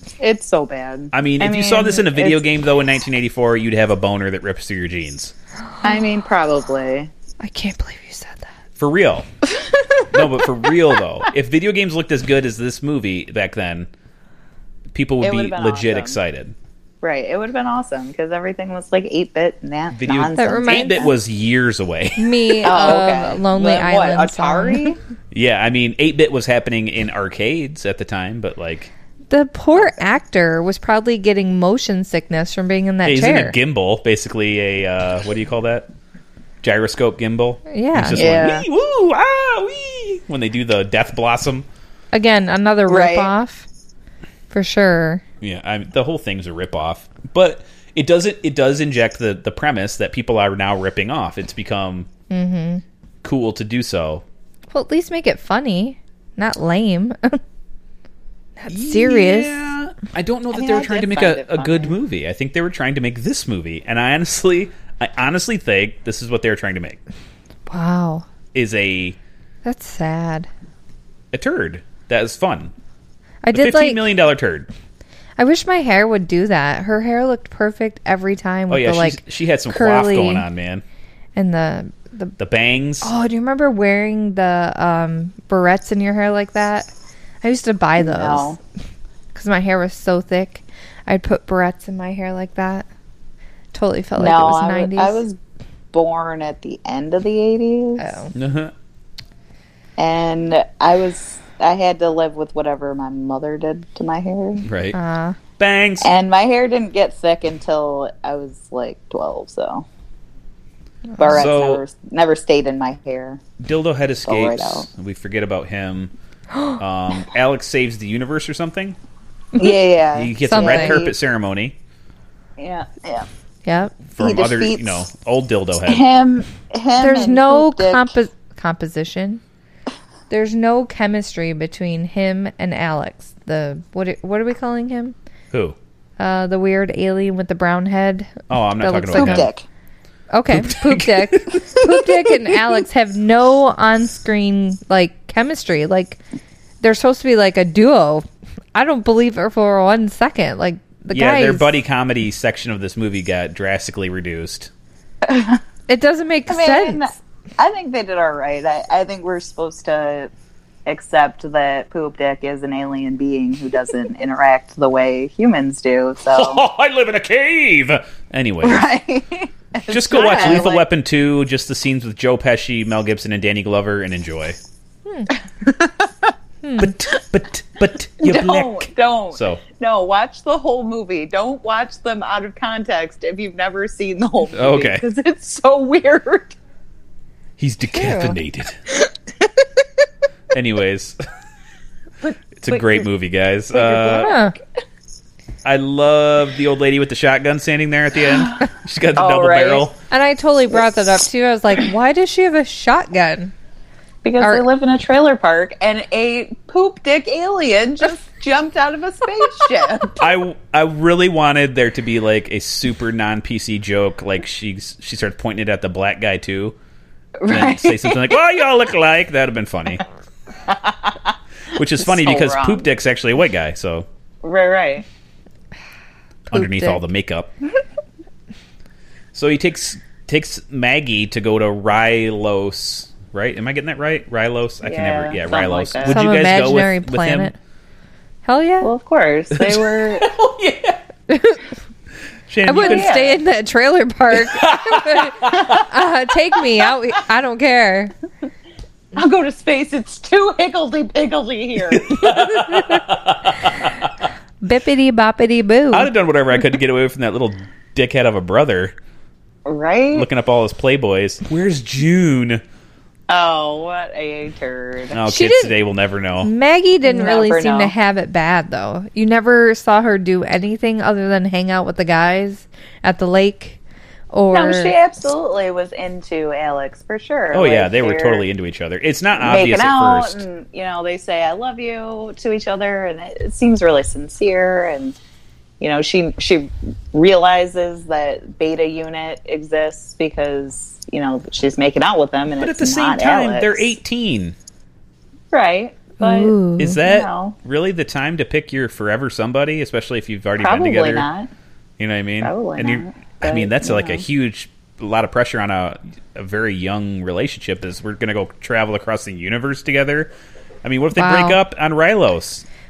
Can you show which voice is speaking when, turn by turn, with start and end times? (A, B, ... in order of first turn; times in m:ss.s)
0:00.2-0:02.4 A
0:01.1-0:05.3 B
0:05.8-0:07.1 A
0:07.4-0:08.5 C
0:08.8-0:09.3 B
0:10.1-0:13.9 B
0:14.9-0:16.5 B
0:15.2-0:16.2 A
0:17.0-0:21.1 A
0:20.0-0:22.8 B
0:20.4-0:21.1 C
0:22.2-0:24.9 C
0:22.6-0:25.0 A
0:25.3-0:28.9 B
0:29.3-0:33.6 C
0:33.0-0:35.9 B
0:36.6-0:41.7 B
0:37.7-0:38.3 C
0:38.2-0:38.6 A
0:42.1-0:43.7 C
0:42.9-0:43.3 A
0:44.5-0:45.2 C
0:45.4-0:52.1 B
0:52.3-0:52.8 C
0:53.2-0:54.2 B
0:54.7-0:57.4 C
0:58.6-0:59.6 C
0:58.7-1:07.0 B
1:00.5-1:01.9 A
1:07.7-1:08.2 C
1:08.5-1:09.2 B
1:09.6-1:10.5 C
1:11.3-1:12.7 B
1:13.4-1:14.0 C
1:13.5-1:14.7 B
1:15.4-1:20.4 C
1:18.7-1:20.8 B
1:21.4-1:22.4 C
1:22.4-1:23.1 B
1:23.0-1:26.9 C
1:27.4-1:28.6 C
1:28.0-1:28.6 A
1:29.3-1:32.9 C
1:33.7-1:35.2 C
1:34.2-1:35.4 A
1:35.9-1:38.2 A
1:38.0-1:38.3 C
1:38.4-1:38.7 B
1:40.0-1:44.7 A
1:44.7-1:45.0 B
1:44.9-1:45.4 C
1:45.6-1:46.1 B
1:46.0-1:49.9 A
1:51.2-1:51.4 C
1:51.2-1:53.4 A
1:51.3-1:51.8 B
1:53.6-1:56.1 B
1:54.3-1:54.9 A
1:56.8-1:59.0 B
1:59.6-2:01.1 A
2:00.2-2:01.8 B
2:00.4-2:01.0 C
2:02.6-2:03.3 A
2:03.7-2:04.0 C
2:04.1-2:06.1 B
2:04.2-2:05.0 A
2:05.9-2:08.1 A
2:07.0-2:09.4 C
2:10.3-2:15.2 C
2:16.2-2:19.5 C
2:18.5-2:19.5 B
2:19.1-2:19.6 A
2:20.3-2:26.2 C
2:20.5-2:22.0 B
2:26.8-2:31.7 C
2:31.1-2:34.7 B
2:35.2-2:35.6 A
2:35.9-2:37.0 C
2:36.5-2:40.3 A
2:40.9-2:46.6 A
2:46.3-2:48.8 B
2:48.6-2:50.8 A
2:49.9-2:54.6 B
2:55.6-2:56.3 A
2:56.6-2:56.9 C
2:56.8-2:59.6 B
2:58.2-3:06.5 A
3:04.5-3:05.0 B
3:07.6-3:08.8 B
3:08.0-3:08.4 C
3:10.5-3:11.2 B
3:12.2-3:13.1 A
3:12.6-3:14.3 B
3:13.7-3:14.6 A
3:14.2-3:14.5 C
3:15.6-3:20.0 B
3:19.2-3:19.8 A
3:20.1-3:23.5 C
3:24.2-3:30.2 A
3:24.4-3:24.7 C
3:30.2-3:36.8 B
3:37.4-3:38.2 A
3:37.5-3:40.0 B
3:40.7-3:41.3 A
3:41.8-3:44.1 B
3:42.0-3:42.8 A
3:44.4-3:45.0 A
3:46.5-3:47.0 C
3:46.5-3:47.5 B
3:49.3-3:57.5 B
3:54.8-3:56.2 A
3:56.1-3:57.6 C
3:58.4-3:58.9 C
3:58.8-4:00.3 A
3:59.5-4:01.0 B
4:01.3-4:01.6 C
4:02.5-4:03.1 B
4:02.6-4:08.1 C
4:02.8-4:03.4 A
4:04.4-4:05.8 B
4:09.1-4:12.3 A
4:11.9-4:14.1 B
4:14.6-4:16.1 C
4:15.9-4:18.9 B
4:19.7-4:20.3 A
4:20.1-4:22.6 B
4:23.3-4:25.2 A
4:25.1-4:26.5 B
4:25.2-4:25.8 C
4:26.4-4:33.8 C
4:27.0-4:27.9 A
4:34.3-4:34.9 C
4:34.5-4:38.4 A
4:37.5-4:40.4 B
4:39.4-4:45.2 A
4:45.8-4:54.0 A
4:52.6-4:54.6 B
4:55.5-4:57.6 A
4:56.2-4:57.0 C
4:56.8-5:01.3 B
5:00.6-5:01.5 A
5:02.0-5:10.3 B
5:02.4-5:04.2 A
5:10.8-5:12.6 B
5:11.2-5:11.6 C